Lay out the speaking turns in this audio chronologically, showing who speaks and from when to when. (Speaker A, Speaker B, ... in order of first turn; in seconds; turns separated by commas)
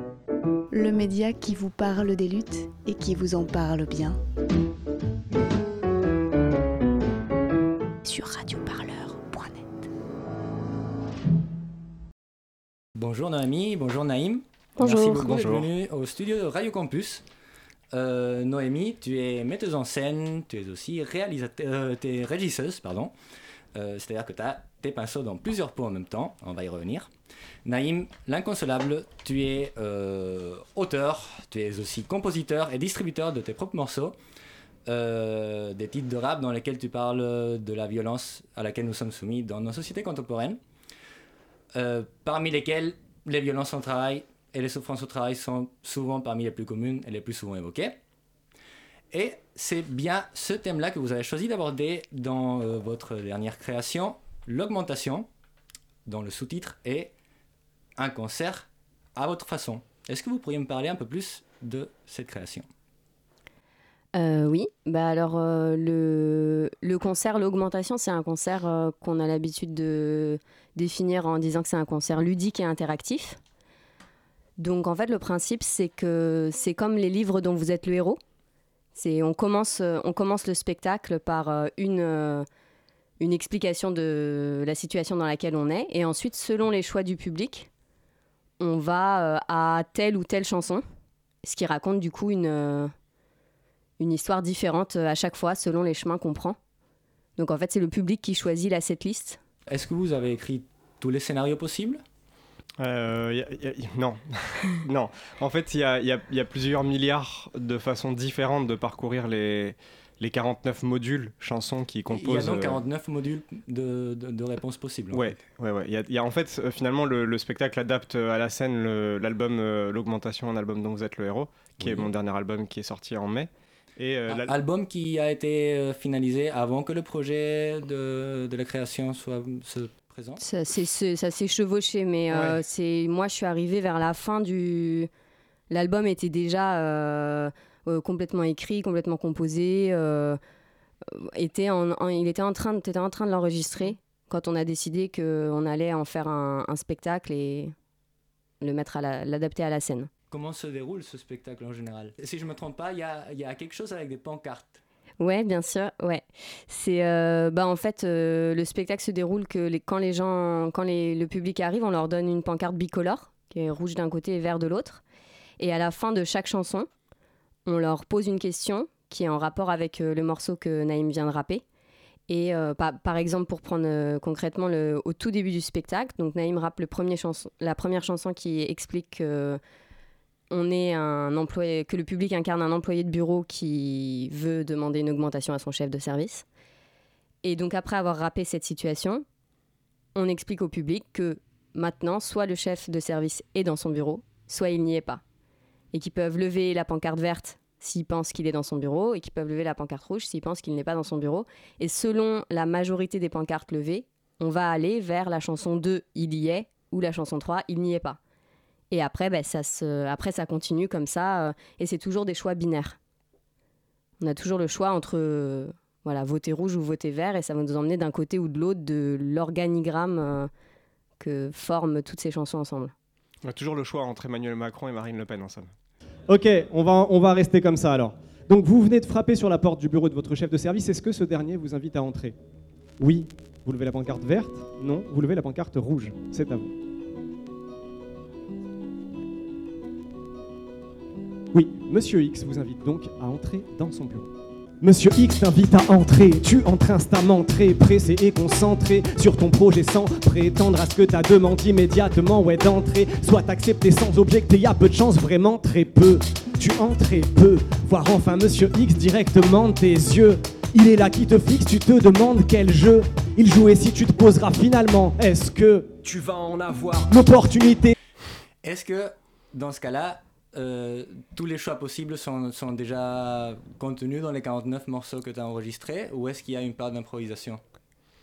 Speaker A: 0.7-4.2, Speaker A: 8.0-9.9, Speaker B: 13.0-17.3, Speaker A: 14.8-15.5, Speaker B: 17.9-23.1, Speaker B: 23.7-27.1, Speaker B: 27.6-34.2, Speaker B: 34.9-40.6, Speaker B: 41.8-48.0, Speaker B: 49.1-55.3, Speaker B: 56.0-57.1, Speaker B: 58.0-62.7, Speaker C: 64.1-73.4, Speaker C: 74.6-78.2, Speaker C: 79.0-82.5, Speaker C: 83.2-87.7, Speaker C: 88.6-90.8, Speaker C: 91.4-92.9, Speaker C: 94.0-96.6, Speaker C: 97.4-99.4, Speaker B: 99.7-102.0, Speaker D: 102.8-112.8, Speaker B: 112.1-115.4, Speaker D: 115.1-124.6, Speaker B: 121.8-122.1, Speaker B: 124.3-130.4, Speaker C: 130.4-135.1, Speaker D: 132.3-132.6, Speaker C: 135.7-140.4, Speaker C: 141.1-147.7, Speaker C: 148.6-150.1, Speaker B: 150.3-154.8, Speaker C: 155.2-165.0, Speaker C: 165.6-166.9, Speaker C: 167.7-171.6, Speaker C: 172.3-179.6, Speaker C: 180.5-186.4, Speaker C: 187.4-189.2, Speaker C: 190.2-195.2, Speaker C: 195.9-208.2, Speaker C: 208.9-213.0, Speaker C: 214.2-220.5, Speaker C: 221.2-222.9, Speaker D: 223.4-225.7, Speaker E: 226.3-232.3, Speaker E: 233.0-236.7, Speaker E: 241.5-244.2, Speaker E: 244.8-267.9, Speaker D: 246.4-247.4, Speaker D: 248.7-253.9, Speaker B: 268.6-277.6